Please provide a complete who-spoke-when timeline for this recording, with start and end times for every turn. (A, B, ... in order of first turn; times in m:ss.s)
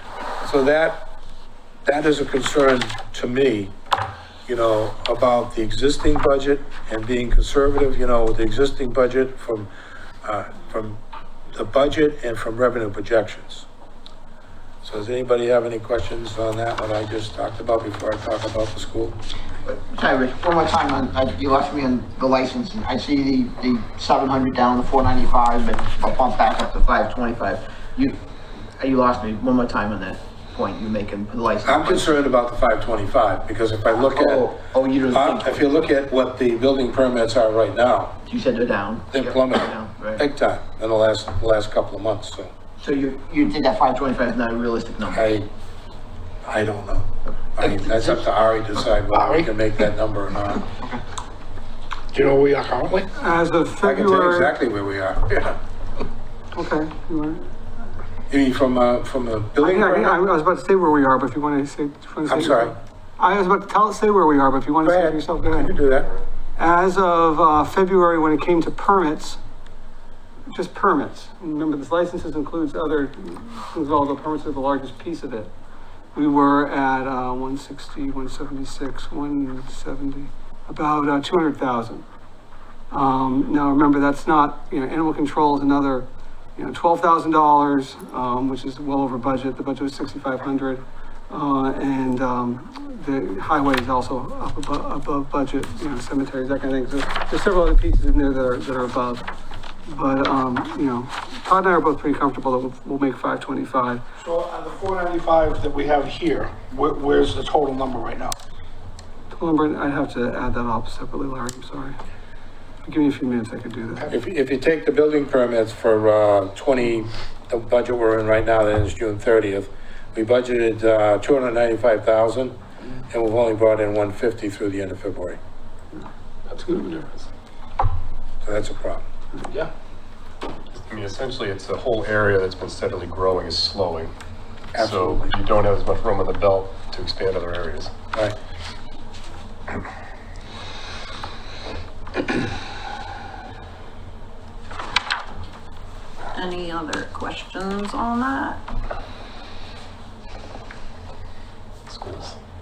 0:00.4-0:01.1 A
0:01.8-0:03.7 A
0:04.4-0:09.7 A
0:10.2-0:11.0 A
0:11.5-0:13.7 A
0:14.8-0:19.2 A
0:19.6-0:28.2 B
0:28.7-0:32.1 B
0:31.6-0:34.5 A
0:34.1-0:35.6 B
0:35.1-0:38.2 A
0:38.3-0:40.2 B
0:39.1-0:42.5 A
0:42.8-0:45.2 B
0:45.1-0:45.5 A
0:46.4-0:50.7 A
0:47.6-0:48.0 B
0:49.1-0:49.5 C
0:52.1-0:53.1 C
0:53.2-0:54.6 D
0:53.8-0:55.6 A
0:56.5-0:57.4 D
0:58.3-1:00.2 A
0:59.6-1:05.8 D
1:02.2-1:02.8 A
1:04.8-1:06.1 A
1:06.6-1:09.4 D
1:10.5-1:15.5 D
1:16.1-1:22.0 D
1:22.9-1:39.2 D
1:39.9-1:44.0 D
1:44.2-1:48.4 C
1:49.3-1:52.0 D
1:52.8-1:54.0 D
1:54.1-2:02.6 A
2:03.1-2:05.4 A
2:06.5-2:07.2 E
2:06.6-2:06.8 D
2:08.4-2:09.0 A
2:10.7-2:14.1 E
2:14.7-2:15.3 A
2:14.7-2:17.9 E
2:26.3-2:28.6 F
2:31.9-2:32.4 E